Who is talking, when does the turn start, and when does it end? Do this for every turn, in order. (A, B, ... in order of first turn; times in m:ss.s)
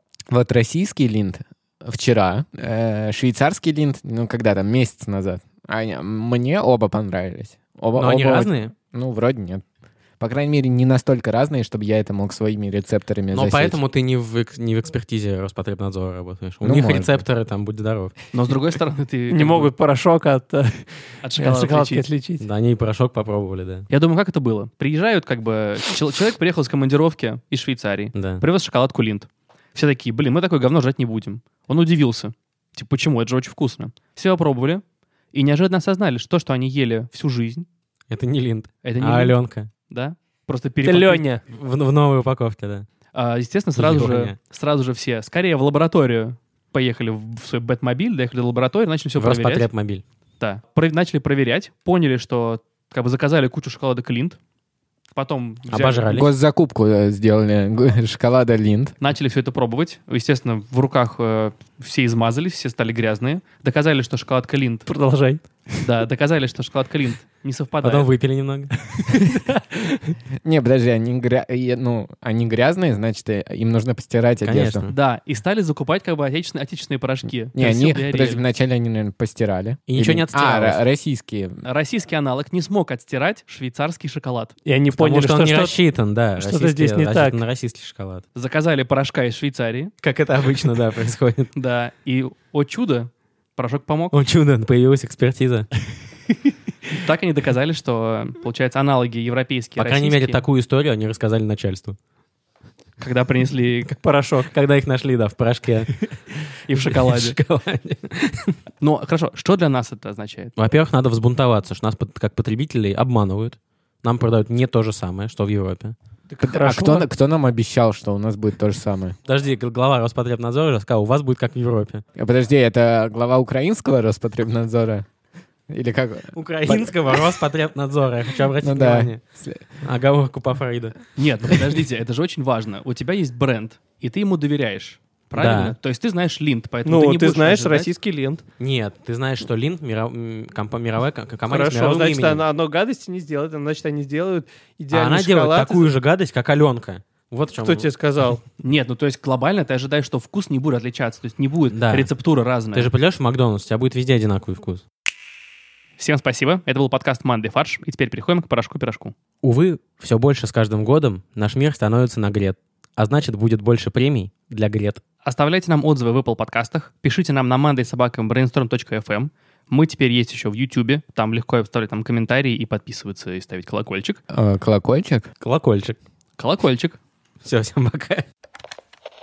0:00.3-0:09.6 A
0:08.0-0:08.7 B
0:10.2-0:13.8 A
0:13.3-0:18.1 B
0:16.6-0:17.2 A
0:18.3-0:19.7 C
0:19.3-0:22.5 D
0:21.2-0:22.0 C
0:22.4-0:23.9 B
0:23.9-0:37.7 C
0:28.2-0:28.4 B
0:38.1-0:39.7 B
0:38.8-0:41.2 C
0:40.8-0:41.4 D
0:41.5-0:42.9 B
0:43.1-0:49.7 C
0:43.8-0:44.4 B
0:49.2-0:50.0 B
0:50.4-0:54.4 C
0:55.2-0:56.2 C
0:55.7-0:56.3 B
0:56.1-0:59.0 A
0:59.0-1:04.9 C
1:04.9-1:05.8 D
1:05.8-1:08.1 C
1:07.8-1:08.7 B
1:09.0-1:10.2 D
1:10.4-1:14.9 A
1:14.4-1:14.9 B
1:14.9-1:18.4 C
1:17.6-1:21.6 A
1:19.9-1:20.8 B
1:21.6-1:24.6 C
1:24.7-1:25.8 D
1:24.9-1:28.2 B
1:26.4-1:27.4 D
1:28.4-1:29.9 C
1:30.0-1:31.5 B
1:31.6-1:34.1 C
1:34.1-1:35.7 B
1:36.9-1:40.4 C
1:39.8-1:42.0 B
1:43.0-1:44.0 C
1:44.0-1:44.5 D
1:44.5-1:46.1 B
1:46.7-1:47.4 C
1:46.9-1:48.6 B
1:48.8-1:50.6 C
1:50.6-1:56.0 B
1:56.3-1:57.1 D
1:56.4-1:59.2 A
1:59.3-2:02.0 B
2:02.2-2:05.1 A
2:05.7-2:07.2 A
2:06.4-2:09.2 B
2:08.6-2:09.6 A
2:09.8-2:11.0 B
2:11.2-2:17.9 C
2:15.4-2:15.8 B
2:16.8-2:18.4 D
2:18.6-2:22.4 B
2:21.5-2:25.9 D
2:24.9-2:27.9 B
2:27.6-2:28.4 D
2:28.6-2:32.9 C
2:31.7-2:32.1 B
2:32.7-2:34.8 B
2:36.0-2:39.1 C
2:39.4-2:45.0 B
2:45.2-2:54.2 C
2:54.3-2:55.3 A
2:55.4-2:56.0 B
2:56.4-2:57.0 C
2:57.4-2:58.3 B